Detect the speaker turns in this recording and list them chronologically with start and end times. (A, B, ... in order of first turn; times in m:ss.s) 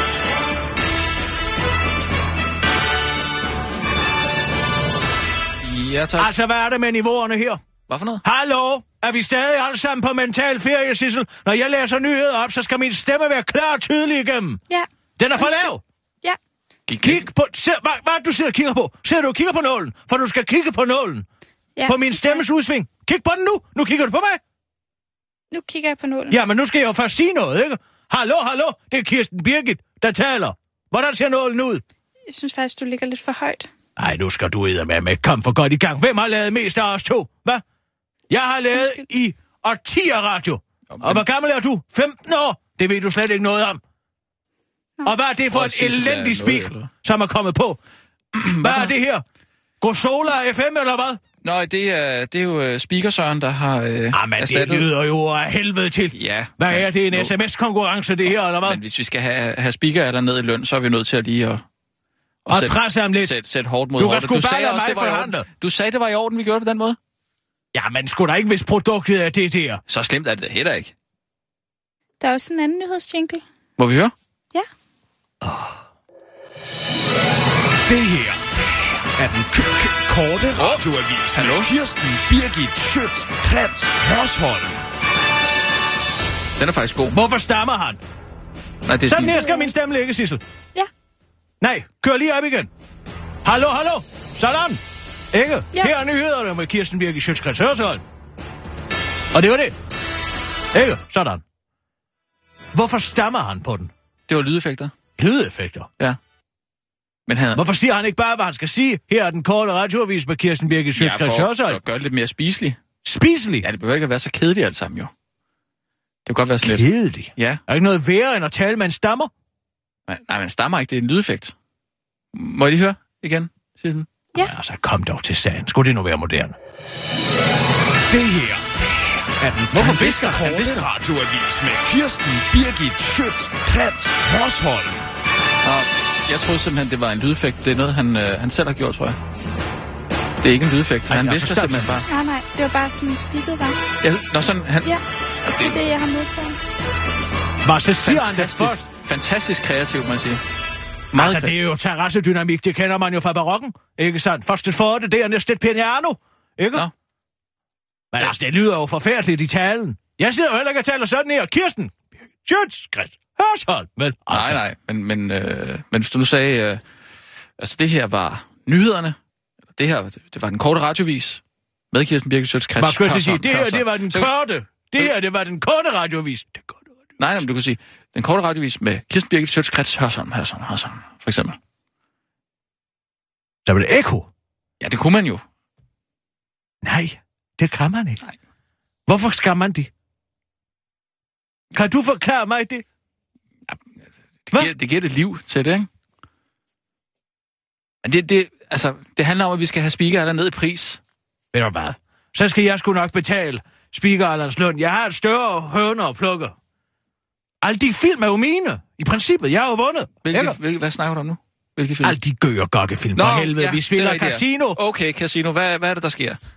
0:05.6-0:06.3 A
0:06.2-0:07.6 B
0:07.9-0:08.2 A
0:08.2-0:14.6 B
0:15.2-0:15.8 B
0:15.4-0:15.7 C
0:16.9-0:17.2 A
0:17.0-0:21.3 B
0:21.8-0:22.4 C
0:21.9-0:24.4 B
0:25.5-0:26.4 C
0:26.3-0:31.8 B
0:32.3-0:33.7 C
0:34.0-0:37.6 B
0:38.3-0:43.8 B
0:40.9-0:41.2 A
0:45.0-0:47.8 B
0:45.5-0:46.9 A
0:48.3-0:48.9 A
0:48.6-0:49.2 B
0:49.8-0:51.2 B
0:51.4-0:54.9 A
0:54.1-0:58.8 B
0:56.1-0:57.3 A
0:58.3-1:01.6 A
1:02.4-1:07.0 A
1:02.5-1:03.4 B
1:04.0-1:05.5 B
1:07.7-1:09.8 B
1:09.9-1:10.9 A
1:12.2-1:13.4 C
1:13.8-1:14.1 A
1:17.9-1:24.8 D
1:20.6-1:21.7 A
1:26.6-1:27.2 A
1:27.1-1:28.0 B
1:28.8-1:29.4 A
1:29.1-1:30.4 B
1:29.3-1:29.7 C
1:31.6-1:32.7 B
1:33.4-1:34.8 B
1:35.3-1:38.0 B
1:39.3-1:39.7 B
1:40.7-1:41.4 B
1:42.7-1:43.9 B
1:44.3-1:44.9 A
1:45.2-1:45.9 B
1:47.3-1:47.6 A
1:47.6-1:51.8 B
1:51.0-1:52.8 A
1:53.0-1:53.7 B
1:53.6-1:55.1 A
1:56.2-1:57.6 A
1:56.6-1:59.3 B
2:00.1-2:01.5 A
2:02.3-2:04.1 A
2:04.4-2:06.6 B
2:08.1-2:15.0 D
2:09.4-2:10.7 B
2:09.7-2:10.8 A
2:15.6-2:19.2 A
2:20.4-2:22.1 A
2:21.1-2:22.0 B
2:22.1-2:23.8 C
2:24.0-2:24.9 A
2:24.8-2:26.6 C
2:25.4-2:25.8 A
2:27.6-2:28.8 B
2:28.0-2:30.4 A
2:31.1-2:31.5 A
2:31.2-2:36.8 B
2:38.1-2:44.6 B
2:44.3-2:46.8 A
2:47.6-2:49.2 A
2:49.7-2:54.3 A
2:52.8-2:56.8 B
2:57.2-3:01.6 A
3:03.6-3:04.3 B
3:04.8-3:05.4 A
3:06.8-3:08.2 B
3:09.1-3:09.9 B
3:11.7-3:12.8 B
3:14.5-3:15.9 A
3:18.0-3:21.0 A
3:21.5-3:26.6 B
3:27.6-3:30.6 B
3:30.2-3:32.2 A
3:32.0-3:34.8 B
3:33.2-3:36.4 A